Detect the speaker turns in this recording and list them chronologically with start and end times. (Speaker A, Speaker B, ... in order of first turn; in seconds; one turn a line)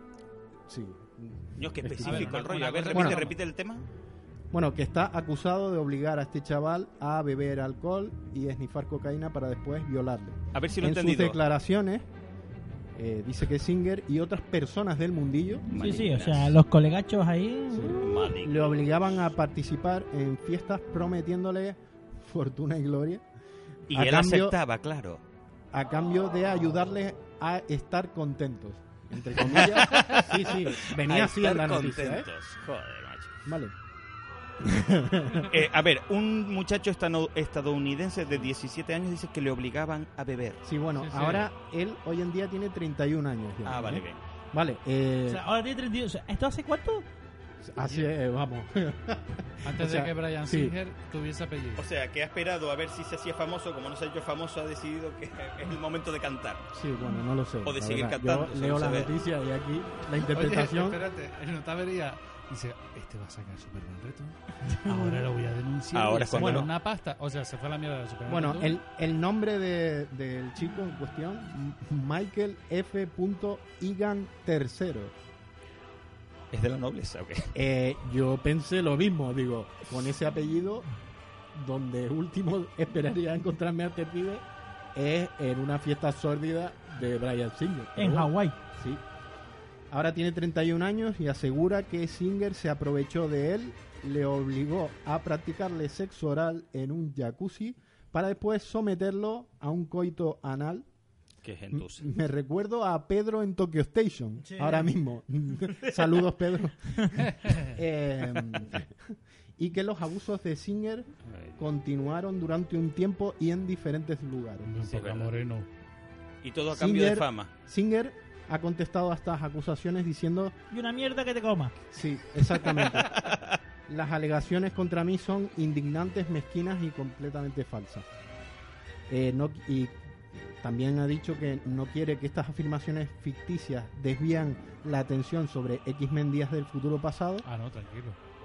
Speaker A: 0.7-2.3
Speaker B: 1.6-3.8
Speaker C: 2.0-3.4
Speaker A: 2.9-3.3
Speaker A: 4.5-12.1
Speaker B: 10.5-11.4
Speaker A: 12.9-15.6
Speaker B: 15.7-16.5
Speaker D: 15.7-18.3
Speaker A: 17.7-23.2
Speaker B: 17.9-19.3
Speaker A: 23.9-24.6
Speaker B: 23.9-25.2
Speaker A: 25.7-32.3
Speaker B: 29.4-33.3
Speaker A: 33.5-33.7
Speaker A: 34.6-35.5
Speaker B: 35.5-40.6
Speaker A: 40.6-45.4
Speaker C: 41.0-41.5
Speaker B: 43.6-44.2
Speaker D: 45.3-47.0
Speaker A: 47.6-50.7
Speaker C: 47.8-48.1
Speaker C: 49.6-51.9
Speaker B: 51.8-56.7
Speaker A: 56.7-61.0
Speaker B: 57.6-59.1
Speaker C: 60.2-68.8
Speaker B: 65.9-66.7
Speaker A: 66.3-66.7
Speaker A: 68.3-75.1
Speaker B: 76.5-77.5
Speaker A: 77.5-80.9
Speaker A: 81.5-84.4
Speaker A: 84.9-89.0
Speaker D: 88.0-88.5
Speaker A: 89.9-100.8
Speaker B: 101.4-102.1
Speaker A: 101.7-114.7
Speaker D: 104.4-105.0
Speaker C: 107.2-107.7
Speaker B: 111.3-111.6
Speaker C: 114.6-115.7
Speaker B: 114.8-115.4
Speaker B: 116.4-117.5
Speaker A: 116.7-120.5
Speaker D: 120.7-121.7
Speaker A: 121.9-123.3
Speaker B: 122.6-123.6
Speaker A: 123.9-128.1
Speaker A: 129.1-137.4
Speaker C: 137.4-138.2